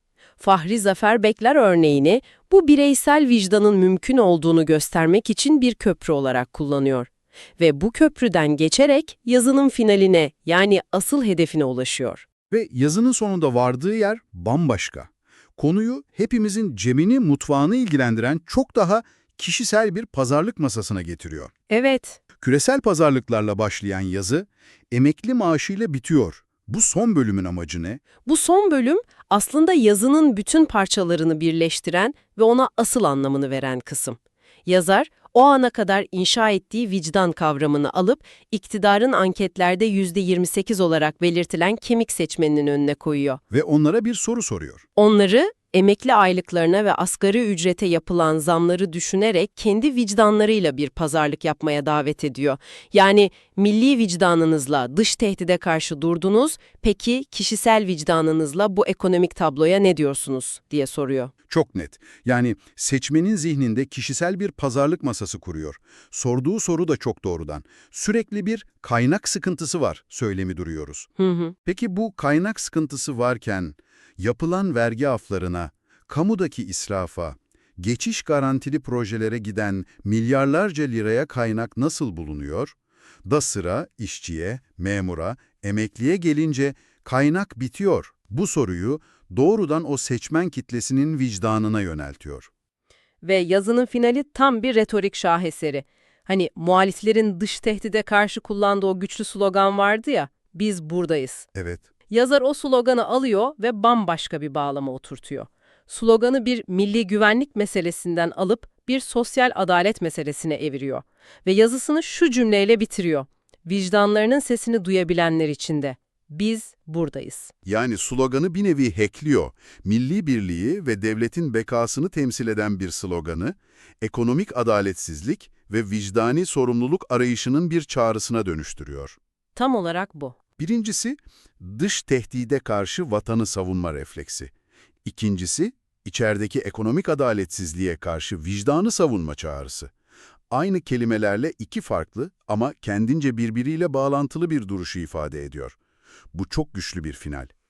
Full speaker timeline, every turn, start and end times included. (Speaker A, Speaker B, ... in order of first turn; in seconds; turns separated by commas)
Speaker A: 0.4-12.2, Speaker B: 12.5-21.5, Speaker A: 21.7-22.2, Speaker B: 22.4-28.0, Speaker A: 28.2-43.4, Speaker B: 43.5-44.8, Speaker A: 45.0-61.3, Speaker B: 61.5-71.1, Speaker A: 71.2-71.5, Speaker B: 71.6-92.5, Speaker A: 93.2-101.5, Speaker B: 101.5-101.8, Speaker A: 102.1-117.5, Speaker B: 117.6-129.2, Speaker A: 129.5-130.3, Speaker B: 130.6-134.5, Speaker B: 135.0-139.9, Speaker B: 140.5-145.8, Speaker B: 146.3-147.5